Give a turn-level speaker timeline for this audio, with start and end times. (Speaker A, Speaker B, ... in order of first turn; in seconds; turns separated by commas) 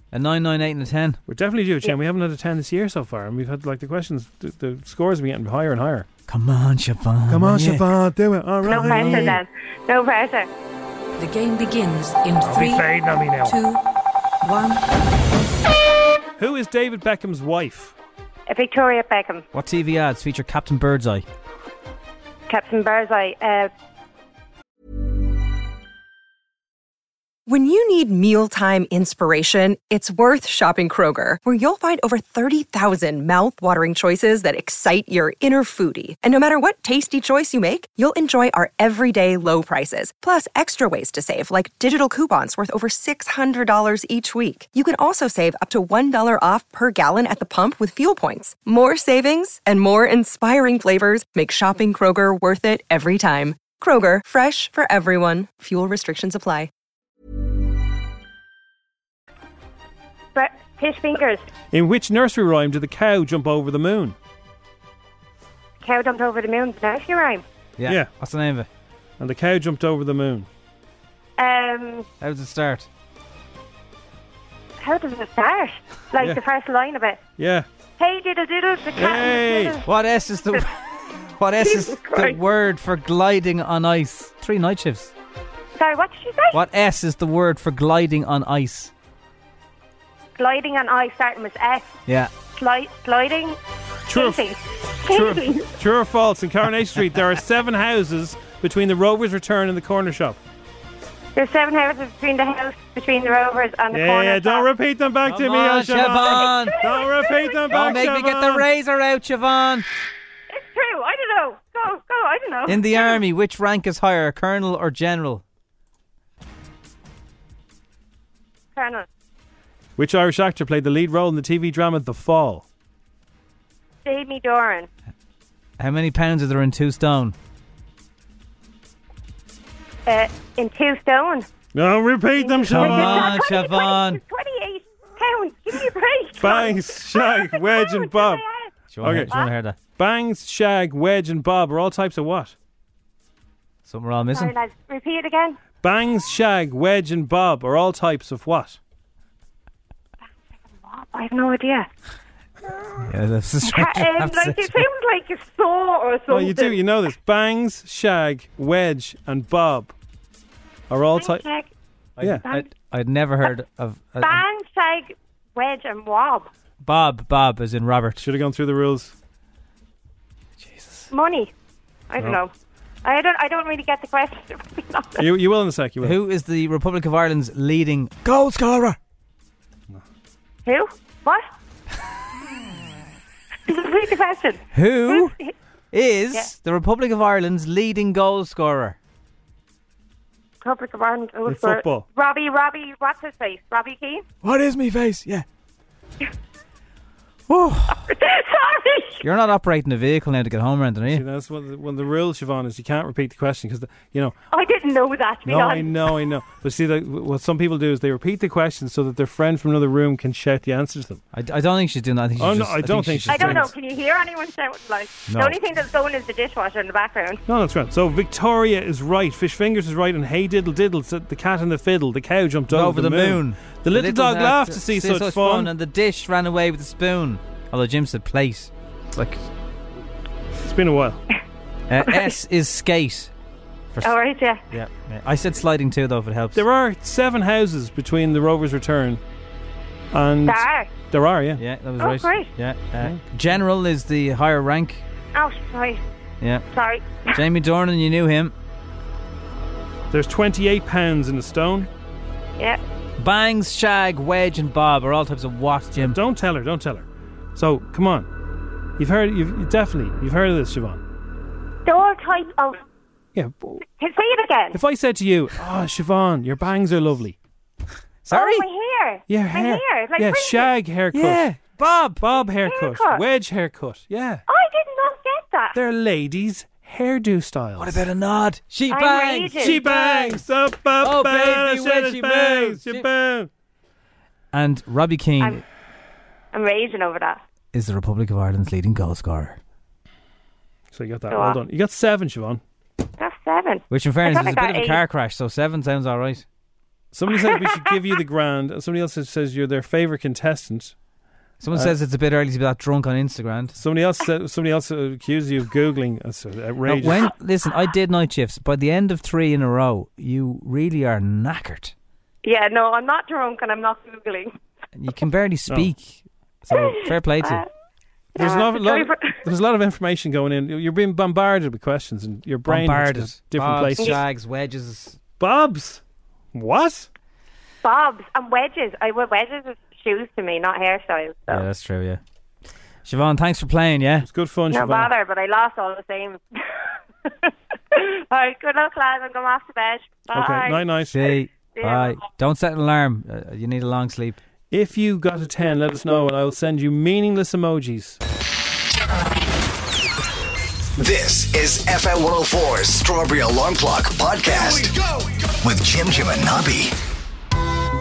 Speaker A: 0.1-1.2, Speaker B: 1.3-6.1, Speaker A: 6.3-7.9, Speaker B: 7.3-9.4, Speaker C: 8.7-10.5, Speaker A: 8.7-9.4, Speaker D: 11.2-13.8, Speaker B: 12.4-13.6, Speaker D: 14.4-14.9, Speaker B: 16.4-17.9, Speaker C: 18.5-19.4, Speaker A: 19.5-21.2, Speaker C: 22.5-23.7, Speaker E: 27.5-56.7, Speaker C: 60.4-61.4, Speaker B: 61.7-64.2, Speaker C: 65.8-67.4, Speaker A: 67.8-68.7, Speaker B: 69.2-70.5, Speaker C: 71.4-72.0, Speaker A: 72.2-72.9, Speaker C: 74.8-77.2, Speaker B: 76.2-76.4, Speaker B: 77.4-77.7, Speaker C: 78.0-79.8, Speaker B: 79.0-79.8, Speaker A: 79.8-80.8, Speaker A: 81.4-85.1, Speaker C: 81.7-82.4, Speaker C: 85.8-86.5, Speaker A: 86.5-88.9, Speaker C: 90.4-91.9, Speaker C: 92.6-93.6, Speaker B: 94.1-94.4, Speaker C: 94.1-95.6, Speaker B: 95.0-100.4, Speaker C: 101.4-104.7, Speaker B: 103.9-108.7, Speaker A: 105.2-106.8, Speaker C: 106.8-107.9, Speaker A: 107.7-109.9, Speaker C: 110.5-113.2, Speaker A: 112.7-115.4, Speaker C: 118.8-119.1, Speaker B: 120.0-122.7, Speaker C: 124.1-124.9, Speaker A: 125.8-127.3, Speaker C: 130.1-131.5, Speaker B: 131.7-133.4, Speaker C: 132.4-138.7, Speaker A: 132.7-134.2, Speaker B: 136.4-138.4, Speaker A: 138.9-139.8, Speaker B: 139.0-139.3, Speaker B: 140.0-142.5, Speaker A: 143.9-144.6, Speaker C: 144.3-145.6, Speaker B: 145.8-148.8, Speaker C: 150.9-151.9, Speaker A: 153.1-154.8, Speaker C: 153.8-156.8, Speaker B: 156.3-159.9, Speaker B: 160.9-161.5, Speaker C: 161.2-161.7, Speaker A: 162.2-164.4, Speaker C: 164.2-166.5, Speaker A: 166.8-168.2, Speaker B: 168.2-169.1, Speaker A: 170.6-171.0, Speaker C: 171.1-171.5, Speaker C: 172.1-172.5, Speaker C: 173.1-175.2, Speaker B: 175.2-176.2, Speaker A: 176.0-179.0, Speaker C: 180.7-181.5, Speaker C: 183.7-184.6, Speaker A: 184.7-185.3, Speaker C: 185.1-185.5, Speaker A: 185.9-189.0, Speaker C: 190.6-194.2, Speaker B: 191.4-192.1, Speaker A: 194.4-195.4, Speaker A: 197.5-198.1, Speaker C: 198.1-199.2, Speaker A: 199.2-201.2, Speaker B: 201.1-204.4, Speaker C: 204.5-205.9, Speaker B: 205.4-211.2, Speaker A: 211.3-213.7, Speaker B: 212.4-213.7, Speaker C: 213.3-217.4, Speaker A: 215.3-215.6, Speaker B: 217.5-225.7, Speaker A: 222.7-229.5, Speaker B: 230.6-231.2, Speaker A: 231.9-233.3, Speaker C: 234.0-234.6, Speaker A: 234.7-236.6, Speaker B: 236.6-239.2, Speaker B: 240.1-241.6, Speaker C: 240.5-240.9, Speaker A: 241.6-245.0, Speaker C: 242.0-242.5, Speaker C: 245.3-246.0, Speaker C: 246.7-247.1, Speaker A: 247.3-248.5, Speaker B: 250.1-251.9, Speaker A: 253.2-256.2, Speaker B: 255.9-258.3, Speaker B: 259.0-261.0, Speaker C: 261.9-262.8, Speaker B: 263.4-263.8, Speaker C: 263.9-264.8, Speaker B: 264.7-267.4, Speaker A: 268.2-268.7, Speaker C: 268.3-270.7, Speaker B: 269.3-274.4, Speaker A: 271.1-272.2, Speaker C: 272.6-273.2, Speaker C: 274.5-275.8, Speaker B: 275.7-278.0, Speaker A: 277.8-280.0, Speaker C: 278.9-280.3, Speaker B: 279.5-283.5, Speaker A: 281.0-283.1, Speaker A: 284.5-285.6, Speaker C: 286.5-287.4, Speaker A: 287.7-289.6, Speaker B: 290.9-292.6, Speaker C: 291.3-291.6, Speaker C: 293.2-295.0, Speaker A: 293.9-296.4, Speaker B: 297.1-300.9, Speaker C: 297.5-297.8, Speaker A: 301.6-303.8, Speaker B: 303.8-307.3, Speaker A: 306.9-311.9, Speaker C: 312.4-314.6, Speaker A: 315.0-317.6, Speaker C: 316.9-317.6, Speaker C: 318.4-319.4, Speaker B: 318.4-324.2, Speaker A: 322.7-325.2, Speaker B: 325.4-326.0, Speaker B: 326.5-327.1, Speaker C: 327.8-331.7, Speaker A: 331.5-332.2, Speaker A: 333.1-334.3, Speaker B: 334.2-335.1, Speaker C: 334.7-336.4, Speaker C: 337.9-340.8, Speaker B: 340.3-341.2, Speaker A: 341.1-344.4, Speaker C: 341.8-342.2, Speaker B: 344.7-348.2, Speaker F: 351.0-355.0, Speaker F: 355.6-356.9